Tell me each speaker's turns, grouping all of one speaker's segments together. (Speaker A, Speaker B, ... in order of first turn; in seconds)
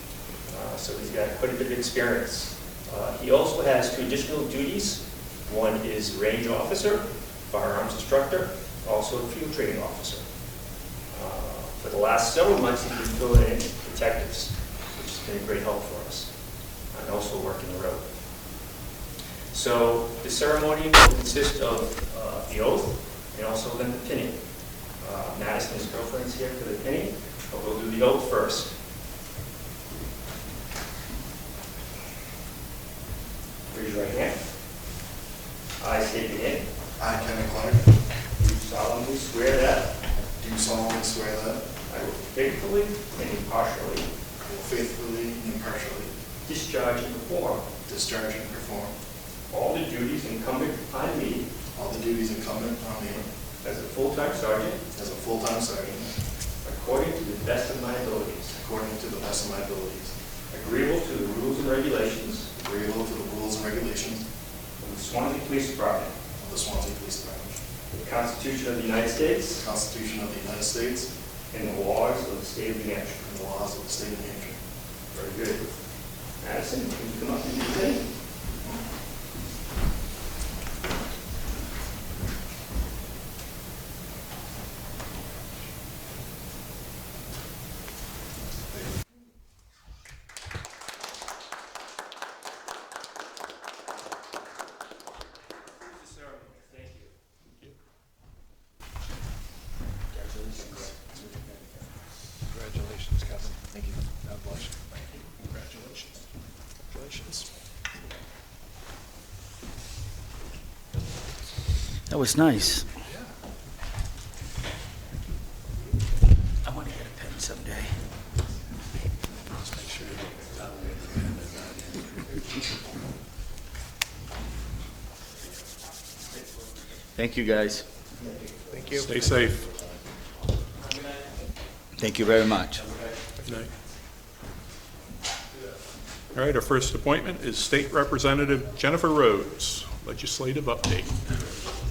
Speaker A: 0.5-10.2, 11.1-16.3, 16.9-18.1, 19.5-24.4, 25.0-28.7, 33.7-34.4, 35.8-36.7, 38.4-39.9, 41.9-44.1, 46.4-47.6, 49.5-51.5, 53.6-54.8, 56.6-58.5, 60.5-62.5, 64.8-66.1, 67.9-69.6, 71.5-73.2, 75.1-75.7, 76.4-78.1, 95.8-97.1
Speaker B: 37.0-37.9, 40.1-41.6, 44.4-46.1, 47.9-48.9, 51.7-53.3, 54.9-56.1, 58.5-60.1, 62.6-64.2, 66.4-67.6, 69.6-71.1, 73.2-74.6
Speaker C: 100.3-100.8, 112.1-112.9, 116.6-117.9, 127.1-127.9, 132.0-132.9
Speaker D: 102.5-104.8, 119.6-122.4
Speaker E: 105.4-106.2, 128.8-129.7, 133.4-133.7, 136.3-141.2